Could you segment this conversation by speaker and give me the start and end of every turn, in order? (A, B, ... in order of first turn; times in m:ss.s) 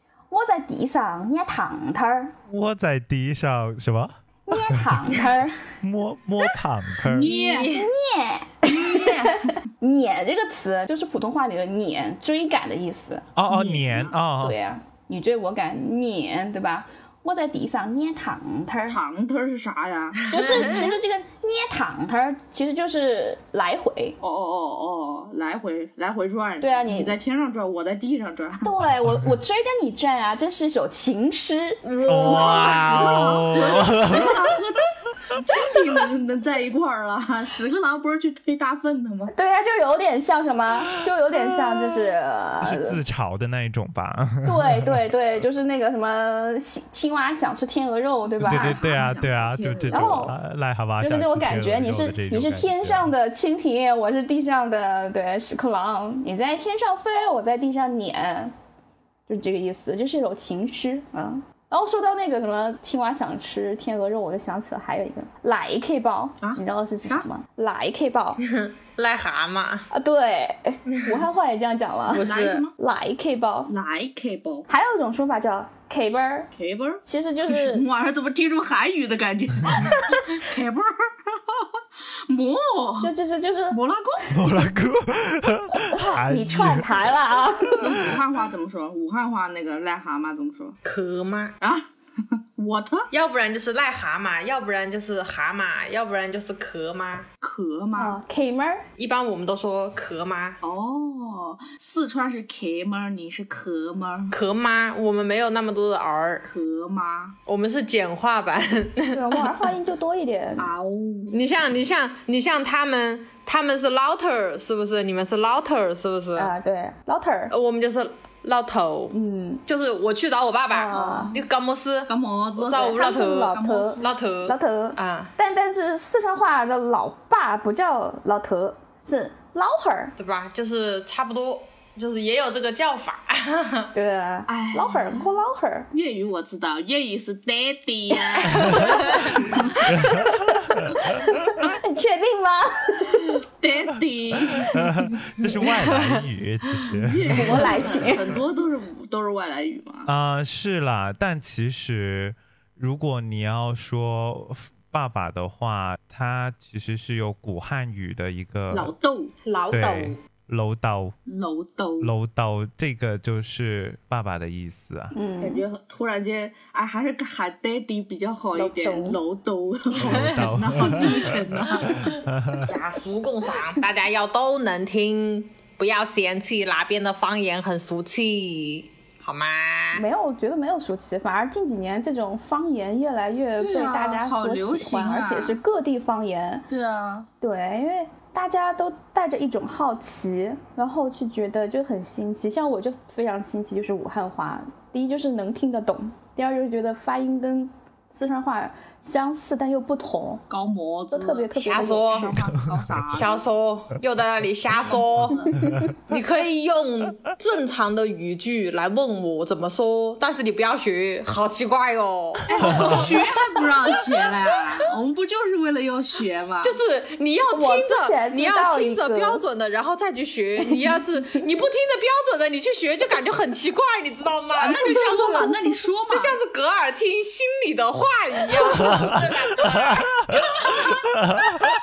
0:00.3-0:02.3 A
0:02.5-0:05.2 B
0:04.5-0:05.6 A
0:05.8-0:07.3 B
0:07.1-0:07.7 C
0:07.2-0:07.9 D
0:07.7-0:13.3 A
0:08.6-0:09.6 C
0:13.4-0:14.6 B
0:13.5-0:14.1 C
0:14.4-0:19.0 A
0:18.9-0:20.9 C
0:20.3-0:24.2 A
0:20.4-0:20.9 D
0:24.2-0:28.7 C
0:26.6-0:27.2 A
0:28.6-0:31.8 A
0:32.0-0:39.3 C
0:32.0-0:33.2 D
0:32.0-0:34.5 B
0:39.3-0:43.0 A
0:41.3-0:42.0 B
0:42.6-0:45.0 B
0:44.4-0:48.8 A
0:48.4-0:53.1 B
0:48.4-0:50.3 C
0:49.9-0:50.4 A
0:51.0-0:58.5 A
0:59.3-1:08.4 A
1:06.4-1:07.3 C
1:08.4-1:09.9 D
1:09.9-1:13.7 A
1:12.1-1:12.6 D
1:12.2-1:12.7 C
1:13.7-1:14.7 C
1:14.7-1:16.5 A
1:16.5-1:23.1 C
1:17.0-1:17.8 A
1:23.0-1:23.8 A
1:23.7-1:24.5 C
1:24.3-1:27.1 B
1:25.7-1:28.1 A
1:27.8-1:30.8 C
1:30.8-1:31.6 D
1:31.6-1:33.1 C
1:33.1-1:37.3 D
1:37.4-1:38.2 C
1:38.0-1:38.8 A
1:39.0-1:40.6 D
1:40.6-1:44.3 C
1:44.3-1:46.5 D
1:46.5-1:47.4 C
1:47.5-1:49.7 D
1:49.1-1:50.7 A
1:50.6-1:51.4 C
1:51.3-1:56.5 D
1:56.4-1:57.5 A
1:57.5-1:59.1 D
1:59.1-1:59.6 A
1:59.7-2:05.3 D
2:00.7-2:01.4 A
2:01.0-2:01.3 C
2:02.1-2:04.1 C
2:02.9-2:10.1 A
2:10.2-2:13.9 D
2:13.9-2:15.9 A
2:14.5-2:15.3 C
2:15.9-2:19.9 C
2:18.6-2:23.4 A
2:18.8-2:19.2 D
2:20.0-2:20.8 B
2:23.4-2:25.7 C
2:24.7-2:27.9 B
2:26.8-2:30.1 C
2:27.3-2:28.4 A
2:30.1-2:38.9 B
2:38.7-2:39.3 C
2:39.4-2:40.2 D
2:39.7-2:41.1 B
2:41.3-2:42.1 C
2:42.0-2:45.2 B
2:45.1-2:45.6 A
2:45.4-2:52.2 C
2:48.5-2:49.2 A
2:50.0-2:50.5 D
2:50.0-2:52.7 B
2:52.6-3:00.0 D
2:59.9-3:06.7 A
3:03.6-3:05.6 C
3:06.7-3:07.3 C
3:07.4-3:20.4 A
3:20.5-3:23.4 C
3:21.1-3:22.4 A
3:21.6-3:22.4 D
3:23.1-3:33.3 D
3:24.8-3:25.7 C
3:25.6-3:25.9 A
3:32.5-3:36.8 C
3:36.6-3:45.6 D
3:37.5-3:39.4 A
3:44.6-3:46.4 C
3:44.7-3:45.5 A
3:46.1-3:51.1 D
3:48.8-3:50.4 B
3:51.2-3:51.6 B